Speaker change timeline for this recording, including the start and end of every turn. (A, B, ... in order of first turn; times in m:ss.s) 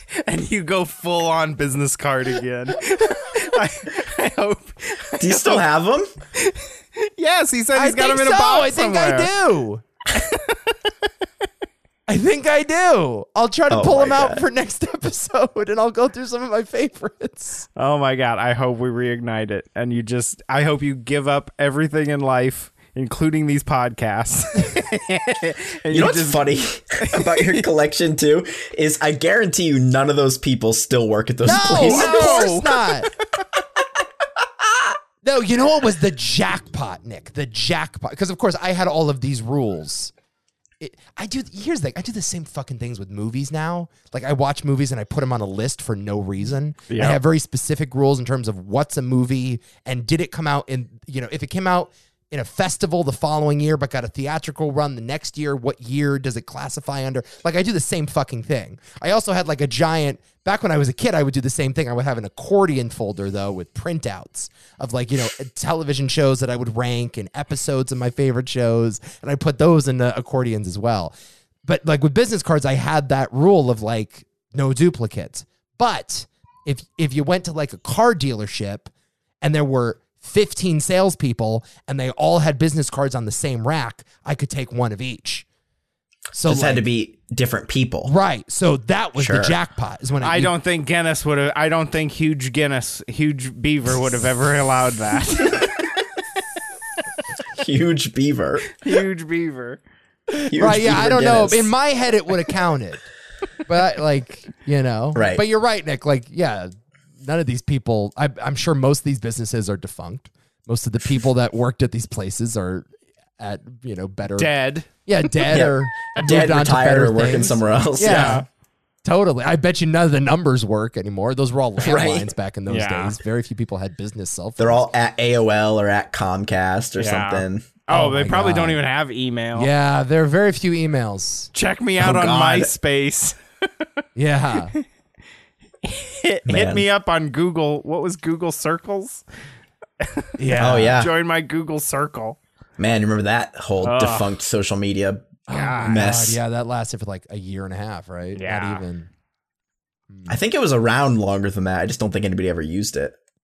0:00.1-0:05.6 A
0:05.2-0:06.1 B
0:06.4-0:09.3 A
0:07.7-0:09.8 C
0:10.2-0:10.7 A
0:12.1-0:17.7 C
0:13.7-0:14.4 B
0:17.8-0:26.4 A
0:25.9-0:32.6 B
0:27.1-0:27.5 A
0:31.4-0:33.1 C
0:31.6-0:32.8 A
0:35.2-0:40.1 C
0:40.8-1:11.1 C
0:46.9-0:47.2 A
1:11.6-1:18.9 C
1:19.4-1:25.5 C
1:26.3-1:26.8 C
1:26.4-1:28.1 B
1:28.0-1:30.5 C
1:29.2-1:29.6 B
1:30.2-1:35.7 A
1:37.6-1:38.8 B
1:38.8-1:39.8 A
1:40.3-1:43.1 C
1:40.5-1:41.7 B
1:43.7-1:58.4 C
1:45.2-1:45.4 B
1:54.4-1:54.9 A
1:55.5-1:58.4 B
1:58.0-1:58.4 A
1:59.0-2:04.9 C
2:01.8-2:02.3 B
2:02.7-2:03.2 A
2:04.6-2:07.8 B
2:07.0-2:09.7 A
2:07.9-2:08.8 C
2:09.6-2:11.5 C
2:11.5-2:13.4 A
2:12.0-2:12.7 B
2:14.2-2:14.8 C
2:15.8-2:19.2 A
2:16.5-2:16.9 B
2:20.0-2:20.3 A
2:20.4-2:21.0 C
2:20.6-2:21.1 B
2:20.9-2:22.4 A
2:22.8-2:26.4 B
2:23.8-2:24.3 A
2:25.5-2:29.1 C
2:25.5-2:26.0 A
2:28.4-2:28.8 A
2:30.1-2:30.4 C
2:30.3-2:33.2 B